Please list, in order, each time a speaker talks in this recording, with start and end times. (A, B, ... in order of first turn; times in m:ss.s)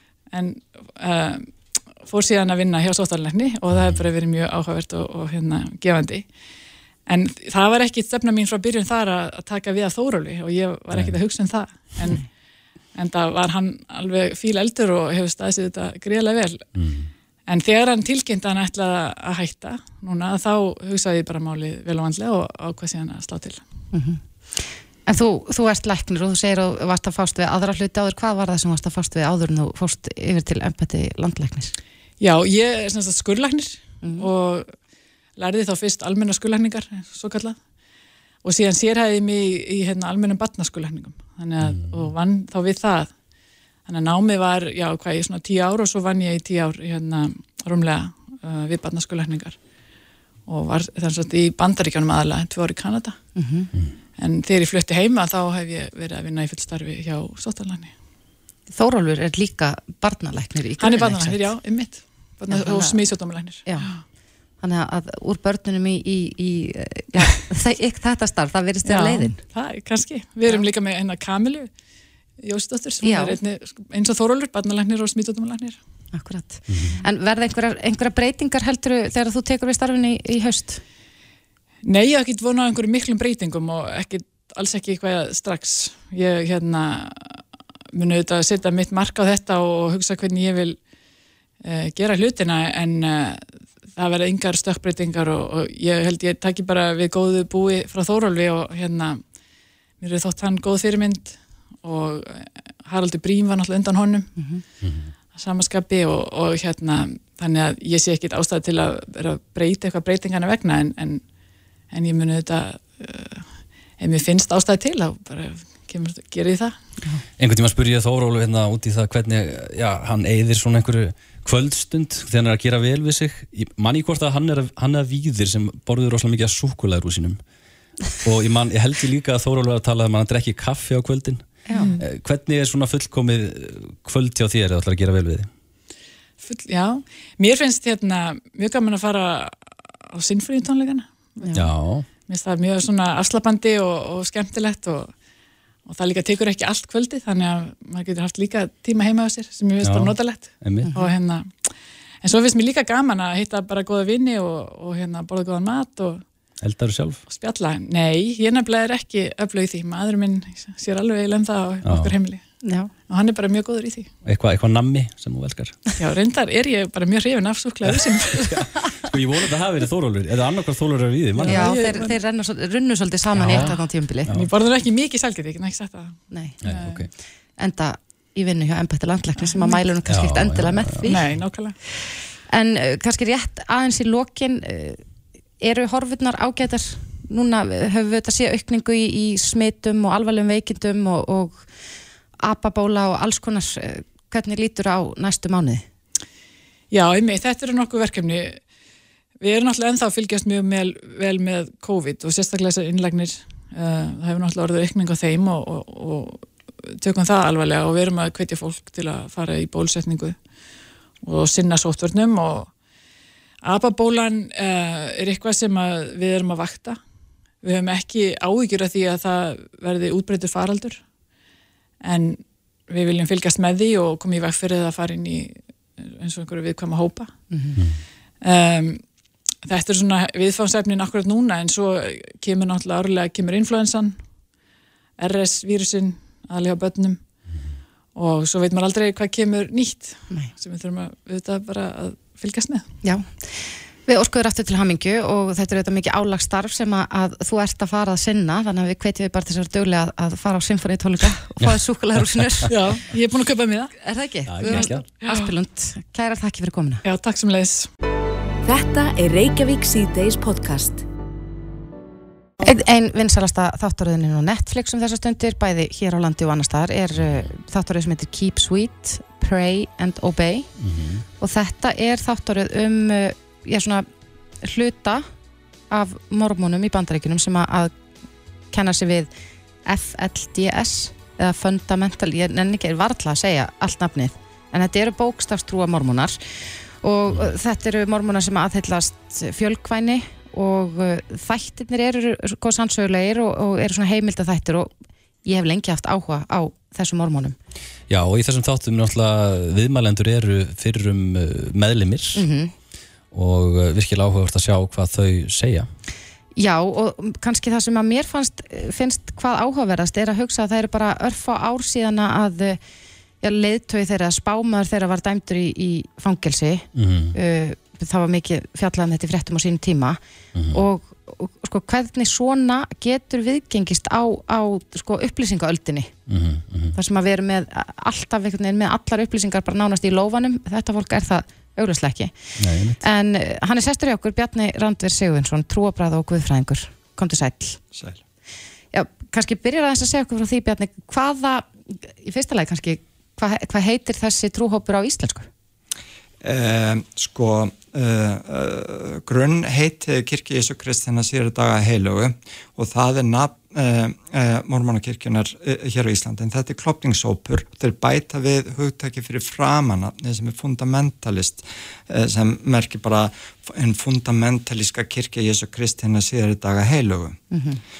0:00.3-0:06.3 A
0:03.7-0:04.1 B
0:07.1-0:12.3 A
0:12.9-0:16.7 A
0:16.8-0:17.1 B
0:17.5-0:23.6 A
0:23.9-0:31.7 C
0:32.2-0:34.8 A
0:34.0-0:34.3 C
0:35.4-0:37.6 A
0:38.4-0:43.2 A
0:41.7-0:42.0 B
0:43.8-0:49.6 A
0:50.5-0:53.2 A
0:53.4-0:53.7 C
0:54.2-0:57.9 A
0:58.7-1:01.6 C
1:00.8-1:04.0 A
1:02.5-1:03.0 C
1:03.6-1:03.9 C
1:04.6-1:09.4 C
1:08.8-1:11.7 A
1:12.4-1:15.8 A
1:13.0-1:13.4 C
1:16.1-1:20.8 C
1:16.7-1:17.0 B
1:21.8-1:30.8 A
1:31.6-1:39.2 A
1:40.0-1:44.5 A
1:44.4-1:44.6 C
1:44.8-1:45.1 B
1:45.3-1:51.2 A
1:51.9-1:56.8 A
1:57.4-2:07.4 B
2:08.2-2:15.5 B
2:11.7-2:12.0 C
2:11.7-2:12.0 A
2:16.4-2:21.7 A
2:21.5-2:22.1 B
2:22.2-2:25.1 A
2:25.8-2:36.2 A
2:29.8-2:31.0 B
2:30.8-2:31.1 C
2:36.6-2:37.2 B
2:37.3-2:42.4 A
2:41.8-2:42.2 B
2:42.6-2:42.9 C
2:43.1-2:44.1 A
2:44.2-2:45.8 B
2:46.0-2:49.0 A
2:47.9-2:51.8 B
2:51.4-2:52.2 A
2:51.5-2:54.3 C
2:53.4-2:53.7 B
2:53.4-2:53.8 A
2:54.3-2:57.1 A
2:56.6-2:57.1 B
2:57.6-3:01.2 C
2:59.6-2:59.8 A
3:00.0-3:01.4 B
3:01.0-3:01.8 A
3:02.5-3:05.0 C
3:05.6-3:11.7 C
3:12.4-3:15.9 C
3:16.9-3:18.6 A
3:19.4-3:30.5 A
3:31.2-3:32.7 A
3:33.6-3:37.0 A
3:37.6-3:41.1 A
3:42.0-3:47.5 A
3:47.5-3:47.8 C
3:48.4-3:49.0 A
3:49.6-3:54.2 A
3:55.2-3:57.4 A
3:58.2-4:02.9 A
4:03.0-4:12.7 C
4:12.7-4:13.9 A
4:14.0-4:17.0 C
4:14.5-4:15.1 B
4:14.6-4:15.5 A
4:17.0-4:17.9 A
4:18.6-4:21.0 D
4:22.6-4:30.7 C
4:30.8-4:31.2 B
4:31.4-4:34.1 C
4:34.6-4:35.3 C
4:35.9-4:37.9 C
4:38.7-4:39.3 C
4:39.9-4:54.9 C
4:55.4-4:57.6 C
4:58.1-5:02.4 B
5:02.4-5:02.7 C
5:03.3-5:05.9 B
5:06.6-5:12.8 C
5:13.4-5:20.2 C
5:17.0-5:17.4 B
5:20.5-5:20.8 B
5:20.7-5:26.1 C
5:26.3-5:27.0 B
5:26.9-5:32.3 C
5:32.6-5:33.0 B
5:33.0-5:37.8 C
5:37.9-5:38.2 E
5:38.9-5:45.5 C
5:46.4-6:07.4 E
6:07.5-6:07.8 C